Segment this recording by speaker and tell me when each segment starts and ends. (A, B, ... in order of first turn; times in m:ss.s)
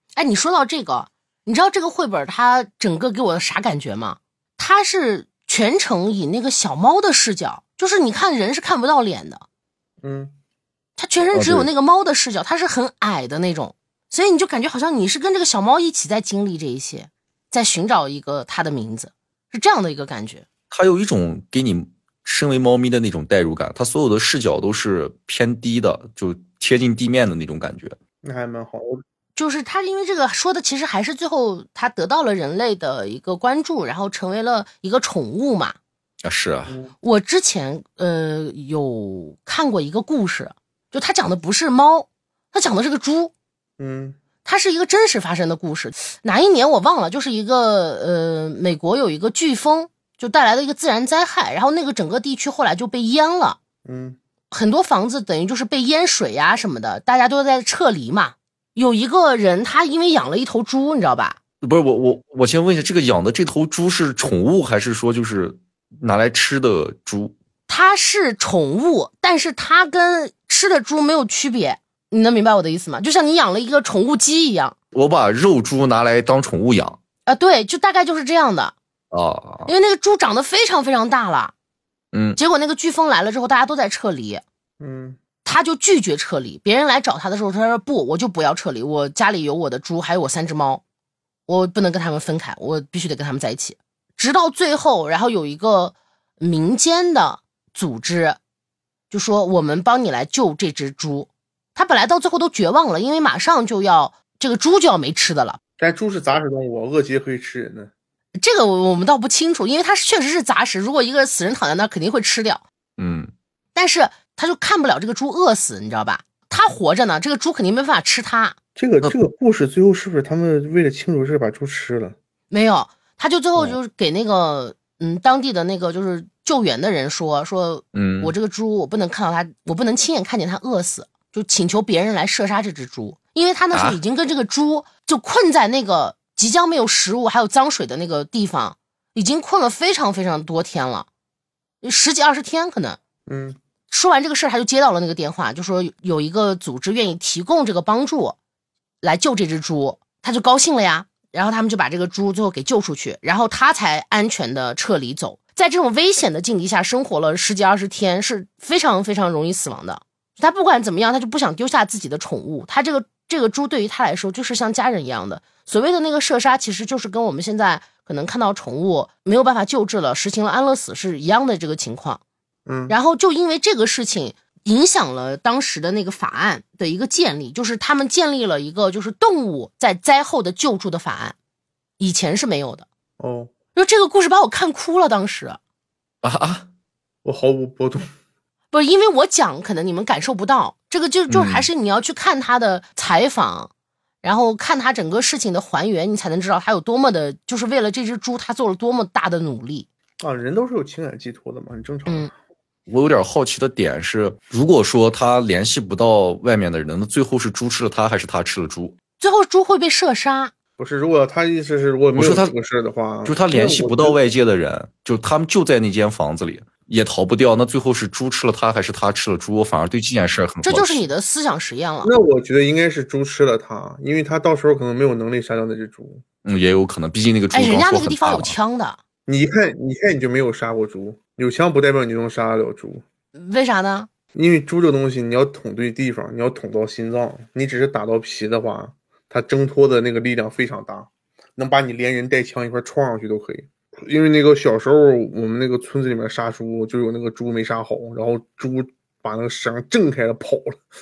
0:00.2-0:09.4 A
0:10.0-0:10.3 B
0:11.0-0:20.4 A
0:11.3-0:11.7 C
0:20.7-0:28.0 C
0:28.2-0:29.0 B
0:29.4-0:35.8 A
0:36.2-0:36.8 C
0:36.7-0:36.9 B
0:37.0-0:43.3 A
0:43.8-0:44.2 B
0:44.4-0:53.6 A
0:53.8-0:54.2 B
0:54.5-1:01.4 A
1:01.6-1:07.3 C
1:07.7-1:14.7 A
1:14.9-1:17.0 C
1:17.3-1:18.7 A
1:19.1-1:19.7 C
1:19.7-1:21.5 A
1:22.1-1:22.4 C
1:22.4-1:24.4 A
1:24.8-1:25.2 B
1:25.4-1:30.8 A
1:31.5-1:38.4 A
1:39.1-1:45.6 A
1:45.8-1:47.9 B
1:48.4-1:52.6 A
1:53.0-1:53.3 C
1:53.7-1:58.6 A
1:58.8-2:02.2 B
2:02.5-2:21.1 A
2:07.9-2:08.3 C
2:13.7-2:14.0 C
2:21.8-2:23.0 A
2:23.3-2:23.6 B
2:23.9-2:28.4 A
2:29.0-2:52.2 A
2:52.6-2:53.0 B
2:52.9-3:01.4 A
3:02.0-3:02.9 A
3:03.2-3:03.5 B
3:03.7-3:05.6 A
3:06.2-3:06.7 C
3:07.2-3:08.1 B
3:08.7-3:13.7 A
3:11.3-3:11.7 C
3:14.2-3:19.9 A
3:20.2-3:22.3 B
3:22.9-3:29.0 C
3:29.2-3:30.5 A
3:30.8-3:34.2 B
3:32.2-3:32.5 C
3:33.2-3:41.1 C
3:40.6-3:42.1 A
3:42.0-3:46.2 B
3:46.4-3:48.5 C
3:47.5-3:49.0 A
3:49.3-3:53.0 B
3:53.3-3:54.1 A
3:54.3-4:10.8 B